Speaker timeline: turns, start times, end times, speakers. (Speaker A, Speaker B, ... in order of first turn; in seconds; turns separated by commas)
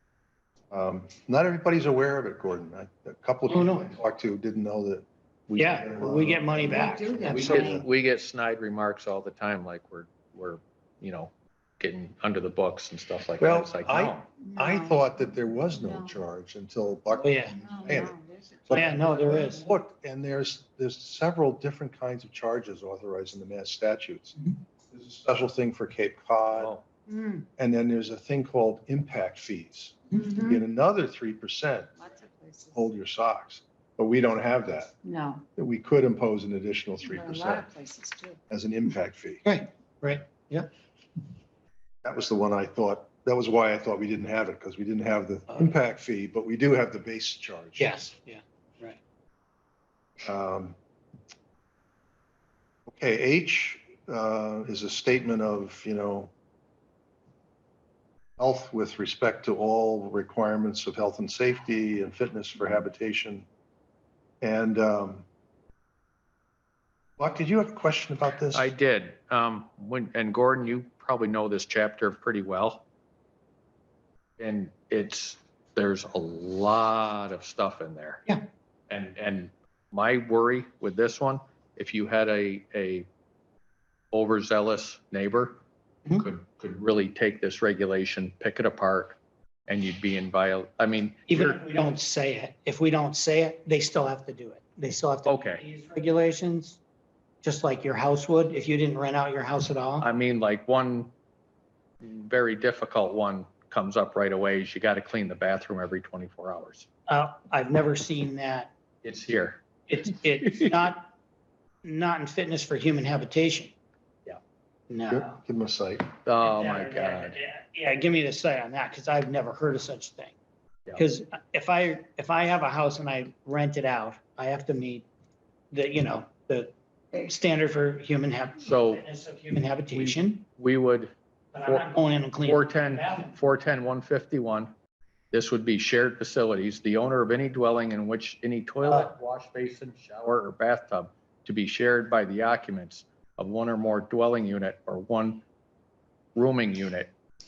Speaker A: 0.7-7.8, Speaker B: 3.5-3.9, Speaker B: 5.5-7.8, Speaker C: 6.6-7.7, Speaker D: 7.3-14.2, Speaker A: 13.4-18.1, Speaker C: 14.4-16.1, Speaker C: 17.1-19.6, Speaker B: 17.2-18.0, Speaker A: 18.7-24.4, Speaker B: 18.7-19.6, Speaker A: 24.9-26.7, Speaker D: 26.5-26.9, Speaker C: 27.1-27.4, Speaker A: 27.6-31.9, Speaker C: 30.2-30.6, Speaker C: 32.0-32.8, Speaker A: 32.7-34.9, Speaker C: 35.0-35.4, Speaker A: 35.5-37.7, Speaker C: 37.0-38.4, Speaker A: 38.5-39.4, Speaker B: 39.4-40.7, Speaker A: 42.0-47.9, Speaker B: 47.8-49.0, Speaker A: 50.2-50.8, Speaker A: 52.9-56.3, Speaker A: 58.4-63.5, Speaker A: 64.4-65.2, Speaker A: 67.2-68.7, Speaker D: 68.5-72.8, Speaker D: 74.4-78.2, Speaker D: 78.9-83.1, Speaker D: 84.1-85.6, Speaker D: 86.1-91.6, Speaker B: 91.3-96.8, Speaker D: 95.2-95.6, Speaker B: 97.4-100.1, Speaker D: 100.0-101.1, Speaker D: 102.0-106.8, Speaker B: 107.1-108.7, Speaker D: 109.0-109.6, Speaker B: 109.9-111.1, Speaker D: 110.4-110.8, Speaker B: 111.8-113.7, Speaker B: 114.9-115.3, Speaker A: 115.1-116.1, Speaker D: 116.2-117.3, Speaker B: 116.4-120.3, Speaker B: 120.9-125.0, Speaker B: 125.7-130.4, Speaker D: 128.6-129.0, Speaker D: 129.9-131.1, Speaker B: 131.5-133.4, Speaker D: 131.6-134.7, Speaker D: 135.3-145.4, Speaker B: 138.8-139.1, Speaker D: 146.3-147.1